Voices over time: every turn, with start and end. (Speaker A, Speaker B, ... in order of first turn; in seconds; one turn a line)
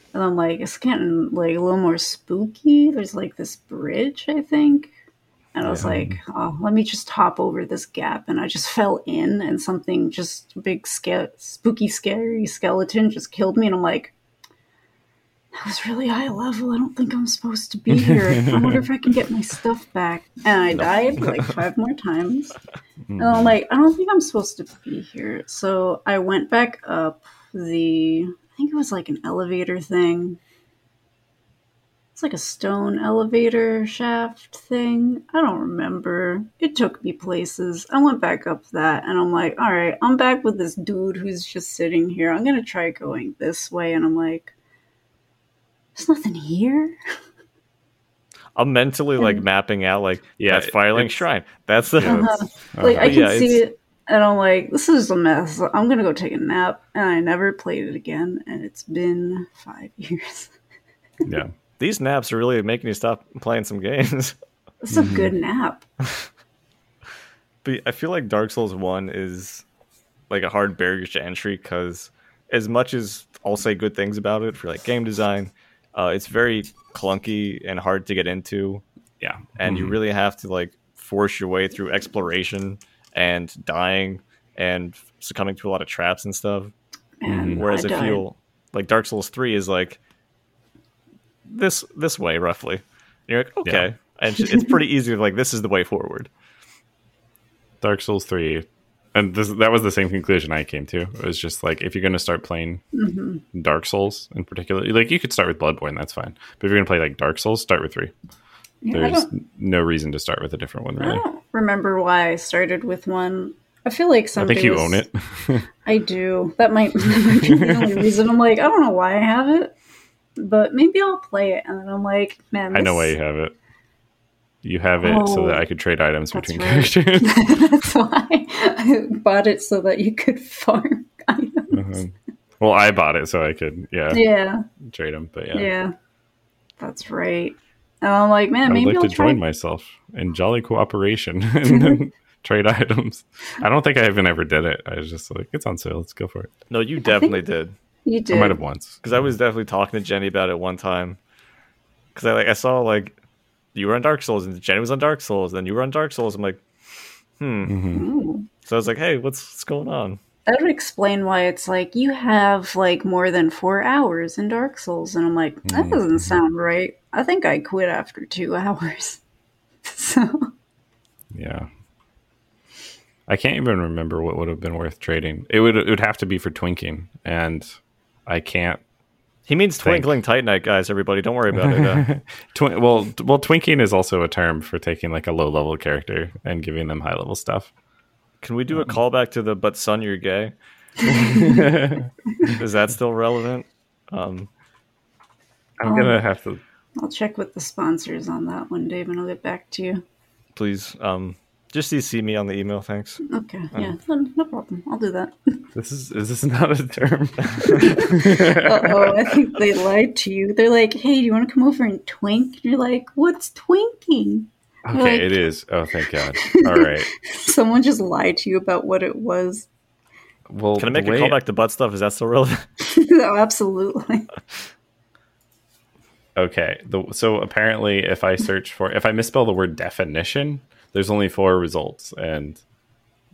Speaker A: 0.1-4.9
Speaker A: 5.5-14.2
Speaker B: 5.6-6.2
Speaker A: 15.5-22.6
Speaker B: 18.0-18.8
Speaker B: 20.8-21.2
Speaker B: 23.1-23.6
Speaker A: 23.2-30.4
Speaker A: 32.1-44.5
Speaker A: 46.0-47.0
Speaker C: 48.6-53.6
Speaker A: 49.2-49.4
Speaker B: 50.4-51.2
Speaker B: 52.0-53.2
Speaker A: 52.0-60.5
Speaker B: 61.2-61.5
Speaker C: 61.8-64.3
Speaker A: 64.8-65.8
Speaker B: 64.9-65.3
Speaker C: 67.6-69.7
Speaker C: 70.3-78.8
Speaker B: 79.2-80.0
Speaker C: 79.6-86.7
Speaker A: 87.2-88.2
Speaker B: 87.3-87.6
Speaker C: 87.6-90.0
Speaker C: 91.5-96.3
Speaker B: 97.8-102.8
Speaker A: 102.9-103.4
Speaker B: 103.5-108.1
Speaker A: 108.8-109.3
Speaker B: 108.9-111.2
Speaker A: 111.0-115.0
Speaker B: 114.4-115.7
Speaker A: 115.8-119.8
Speaker B: 117.2-118.1
Speaker A: 120.4-123.2
Speaker B: 122.7-123.5
Speaker B: 124.6-127.6
Speaker A: 125.0-125.7
Speaker A: 126.3-132.0
Speaker B: 131.7-134.2
Speaker A: 134.1-134.7
Speaker B: 134.8-135.7
Speaker A: 135.5-135.9
Speaker A: 136.8-139.4
Speaker B: 138.7-146.5
Speaker A: 141.7-142.0
Speaker C: 146.7-147.7
Speaker A: 147.1-147.4
Speaker A: 148.1-148.6
Speaker B: 148.3-149.3
Speaker C: 149.0-151.2
Speaker C: 152.2-153.2
Speaker C: 153.7-157.8
Speaker B: 157.7-158.1
Speaker A: 157.9-158.5
Speaker C: 158.7-160.2
Speaker A: 160.5-169.2
Speaker B: 165.7-166.4
Speaker A: 169.8-170.5
Speaker B: 171.3-171.7
Speaker B: 173.3-177.7
Speaker B: 178.3-178.8
Speaker C: 179.5-182.1
Speaker B: 179.8-180.1
Speaker B: 181.5-187.7
Speaker C: 188.4-190.5
Speaker B: 191.1-192.6
Speaker A: 191.1-191.6
Speaker C: 192.5-194.5
Speaker B: 195.8-196.6
Speaker A: 195.8-196.2
Speaker A: 197.0-200.0
Speaker C: 200.6-203.2
Speaker A: 203.3-205.6
Speaker B: 205.7-209.4
Speaker C: 207.5-207.8
Speaker A: 207.7-215.4
Speaker B: 214.9-217.1
Speaker A: 216.4-219.7
Speaker B: 220.5-221.4
Speaker C: 220.8-222.7
Speaker A: 222.9-224.3
Speaker B: 226.4-232.6